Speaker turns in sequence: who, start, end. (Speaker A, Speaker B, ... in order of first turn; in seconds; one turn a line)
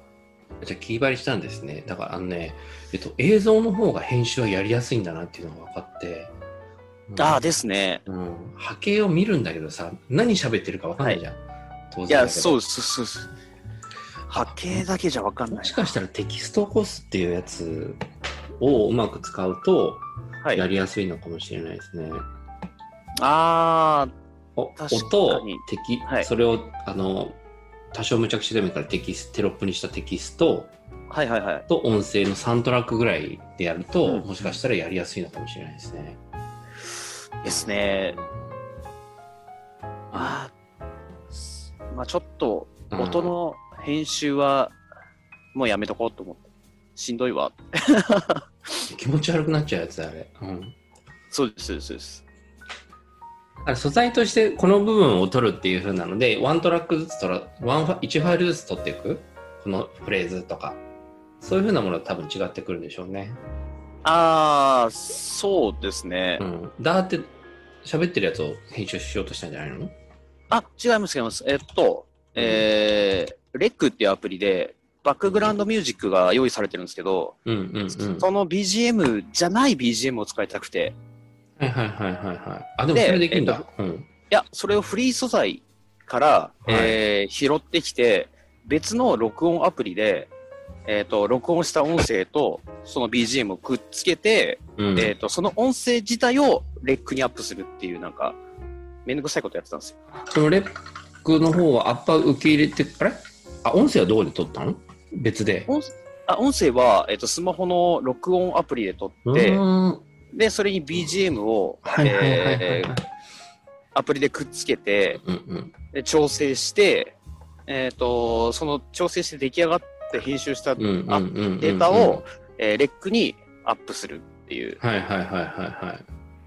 Speaker A: 0.6-6.3
Speaker A: 7.1-7.4
Speaker B: 7.2-8.0
Speaker A: 8.1-11.4
Speaker A: 11.9-12.6
Speaker B: 12.1-13.3
Speaker B: 14.3-15.9
Speaker A: 15.5-18.0
Speaker A: 18.6-22.2
Speaker B: 23.2-24.1
Speaker A: 24.6-27.4
Speaker B: 24.8-26.3
Speaker A: 27.9-30.7
Speaker B: 31.1-31.7
Speaker A: 31.7-36.2
Speaker B: 37.4-38.2
Speaker A: 37.4-38.5
Speaker A: 40.1-40.4
Speaker B: 40.1-40.5
Speaker B: 41.8-44.7
Speaker A: 42.9-43.3
Speaker B: 45.5-48.4
Speaker A: 48.9-50.7
Speaker B: 51.3-52.2
Speaker A: 53.6-60.8
Speaker A: 61.4-63.4
Speaker B: 64.0-66.4
Speaker A: 66.4-67.3
Speaker A: 67.8-69.9
Speaker B: 70.5-77.3
Speaker A: 72.3-72.7
Speaker A: 75.2-75.5
Speaker A: 77.5-78.3
Speaker B: 78.2-80.9
Speaker A: 81.6-84.1
Speaker B: 82.9-83.7
Speaker B: 84.3-90.3
Speaker A: 86.7-87.0
Speaker B: 90.8-98.4
Speaker A: 94.8-95.1
Speaker B: 99.0-100.0
Speaker A: 100.2-100.7
Speaker A: 101.2-105.7
Speaker B: 105.7-109.6
Speaker A: 109.2-110.0
Speaker B: 110.3-113.0
Speaker A: 111.8-113.0
Speaker B: 113.9-115.2
Speaker A: 115.2-115.7
Speaker B: 115.9-117.1
Speaker B: 117.7-124.8
Speaker A: 120.8-122.2
Speaker A: 124.8-126.0